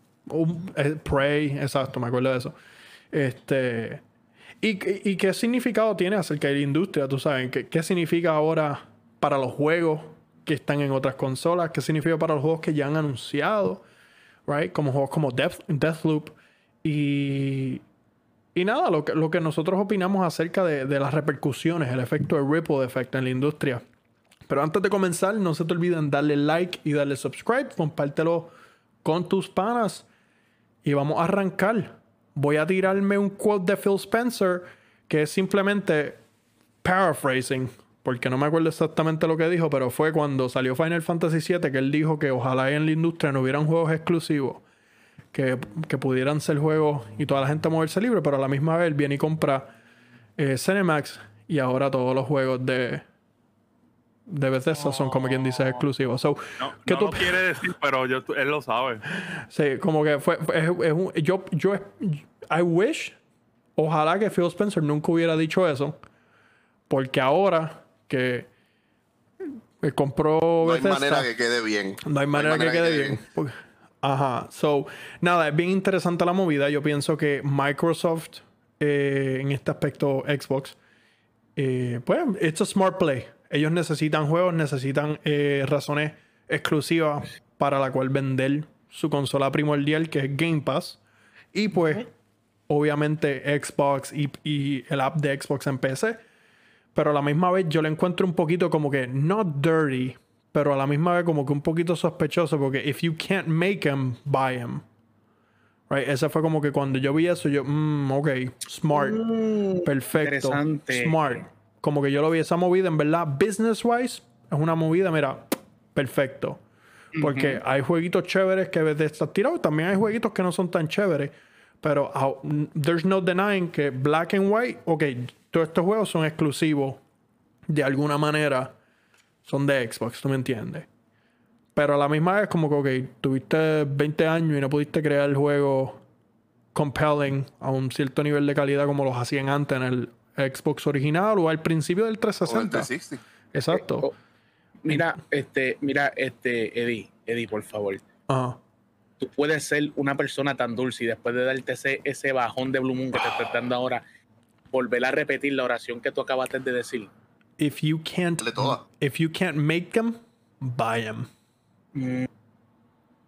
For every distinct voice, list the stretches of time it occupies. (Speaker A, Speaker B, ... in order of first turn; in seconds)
Speaker A: 0.3-2.5, 3.1-4.0, 4.6-13.8, 14.5-17.8, 18.5-23.8, 24.5-28.5, 29.0-30.1, 30.8-36.2, 36.8-44.6, 45.3-49.7, 50.4-53.0, 54.3-57.2, 59.2-63.1, 63.8-66.0, 66.9-68.5, 69.8-71.3, 72.0-80.8, 81.5-91.0, 91.5-92.1, 92.7-96.2, 96.9-104.8, 105.9-109.2, 109.8-116.6, 117.2-127.0, 127.7-128.7, 129.4-130.9, 131.7-136.0, 136.7-142.9, 143.5-144.1, 148.3-148.6, 157.6-161.3
Speaker B: 54.8-55.8, 56.6-59.0
Speaker C: 70.6-73.2, 142.4-143.2, 158.4-158.8
Speaker D: 108.9-111.4, 117.2-117.6, 143.7-144.1, 144.8-148.0, 149.2-154.0, 154.7-157.1, 161.9-162.3